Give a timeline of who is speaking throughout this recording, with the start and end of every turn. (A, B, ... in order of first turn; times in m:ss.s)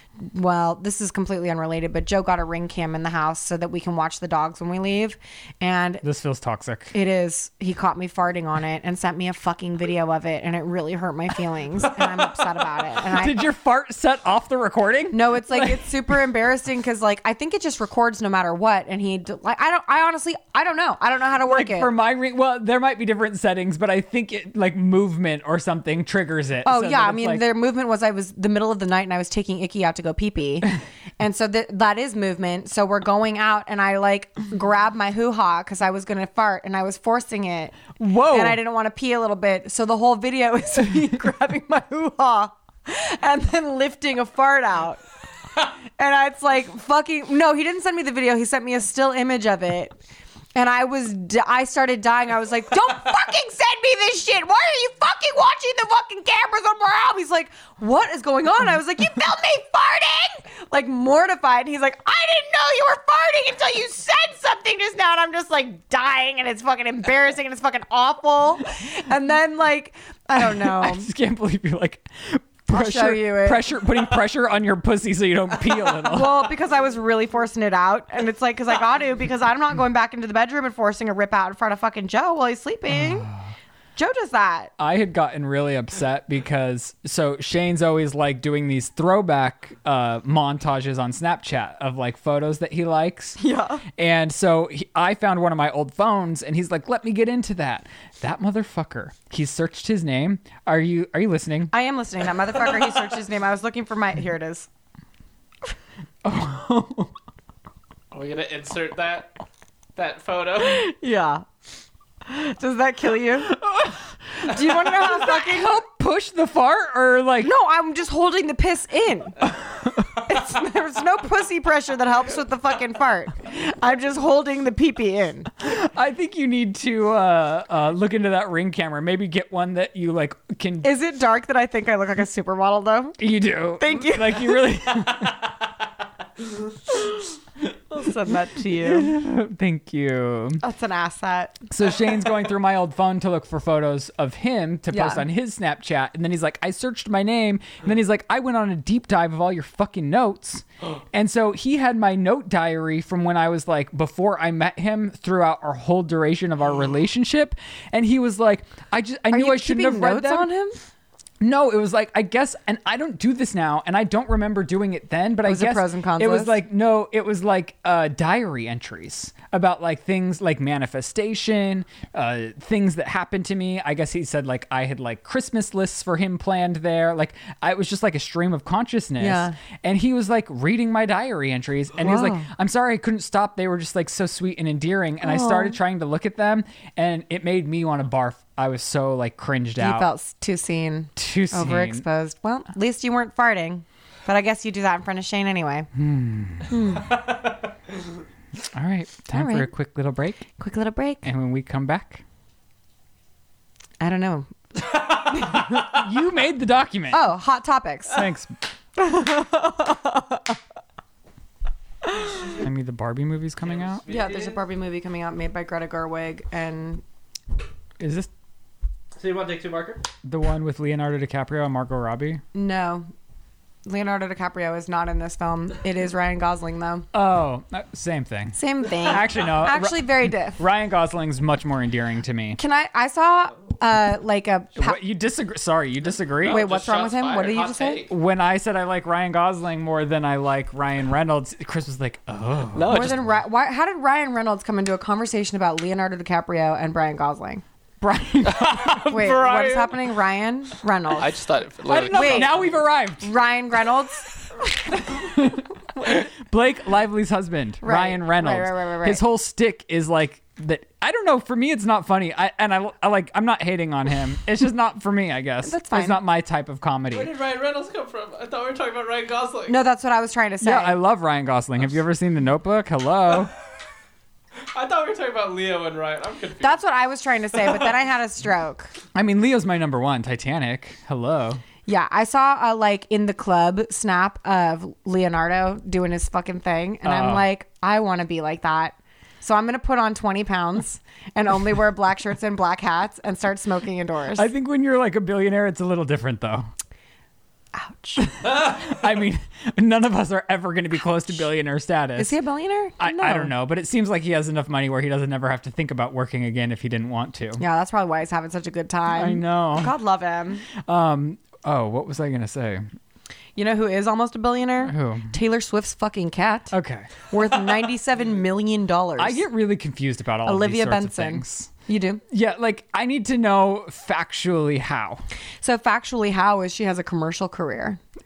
0:00.2-0:06.0 A
0:06.0-0:06.9 B
0:06.9-0:13.4 A
0:13.1-0:16.2 B
0:15.1-0:21.9 A
0:21.4-0:27.4 B
0:26.6-0:45.0 A
0:38.0-0:38.6 B
0:46.0-0:50.0 A
0:50.5-1:11.1 A
1:10.4-1:16.5 B
1:12.7-1:13.6 A
1:16.0-1:23.3 A
1:22.9-1:23.5 B
1:24.0-1:24.7 A
1:24.8-1:41.7 B
1:33.4-1:33.8 A
1:41.7-1:44.7 A
1:46.2-1:47.1 B
1:48.1-1:49.4 C
1:50.0-1:50.8 C
1:50.6-1:51.4 A
1:52.2-1:53.6 A
1:53.5-1:57.5 B
1:54.4-1:55.8 A
1:57.4-1:59.5 A
2:00.1-2:05.5 A
2:05.6-2:10.9 B
2:10.8-2:13.2 A
2:13.2-2:15.6 B
2:13.8-2:14.6 A
2:17.9-2:19.1 A
2:18.7-2:20.6 B
2:20.6-2:21.6 A
2:21.7-2:40.5 B
2:24.9-2:25.2 A
2:39.3-2:40.8 A
2:41.4-3:10.1 B
2:45.4-2:46.6 A
2:59.2-2:59.6 A
3:02.0-3:02.5 A
3:05.2-3:05.8 A
3:09.8-3:15.9 A
3:11.2-3:12.0 B
3:15.9-3:16.8 B
3:16.7-3:17.2 A
3:18.7-3:20.4 B
3:19.3-3:19.7 A
3:20.6-3:21.2 A
3:21.2-3:22.2 B
3:24.0-3:26.0 A
3:25.5-3:27.3 B
3:27.1-3:28.2 A
3:28.1-3:28.6 B
3:29.0-3:30.6 A
3:32.5-3:34.0 B
3:33.8-3:34.6 C
3:34.1-3:37.0 A
3:38.0-3:38.3 B
3:39.2-3:40.0 C
3:40.2-3:42.4 B
3:42.5-3:43.1 A
3:43.8-3:47.1 A
3:47.1-3:52.6 B
3:48.5-3:50.6 A
3:52.6-3:55.0 A
3:54.8-3:56.6 B
3:56.4-3:58.1 C
3:56.4-3:58.0 A
3:58.1-4:03.2 B
4:02.7-4:03.2 C
4:02.9-4:07.6 A
4:08.0-4:09.2 B
4:08.8-4:11.3 A
4:08.9-4:10.0 C
4:11.2-4:12.8 C
4:11.9-4:13.3 B
4:12.1-4:12.6 A
4:13.2-4:14.9 A
4:15.1-4:27.3 B
4:17.8-4:19.2 A
4:25.6-4:26.2 A
4:27.1-4:29.8 C
4:29.7-4:31.0 A
4:30.6-4:33.5 B
4:34.7-4:36.8 C
4:36.6-4:38.9 A
4:39.1-4:41.6 B
4:41.9-4:54.5 A
4:47.0-4:47.4 B
4:54.3-4:56.7 B
4:57.7-4:58.3 A
4:58.2-5:02.3 B
5:02.2-5:03.5 A
5:03.0-5:07.6 B
5:07.6-5:10.6 A
5:09.1-5:09.9 B
5:10.8-5:12.8 B
5:13.6-5:16.7 A
5:14.8-5:15.3 B
5:16.7-5:17.1 B
5:17.3-5:19.4 A
5:19.2-5:21.7 B
5:20.4-5:22.2 A
5:22.3-5:25.2 B
5:25.6-5:28.0 A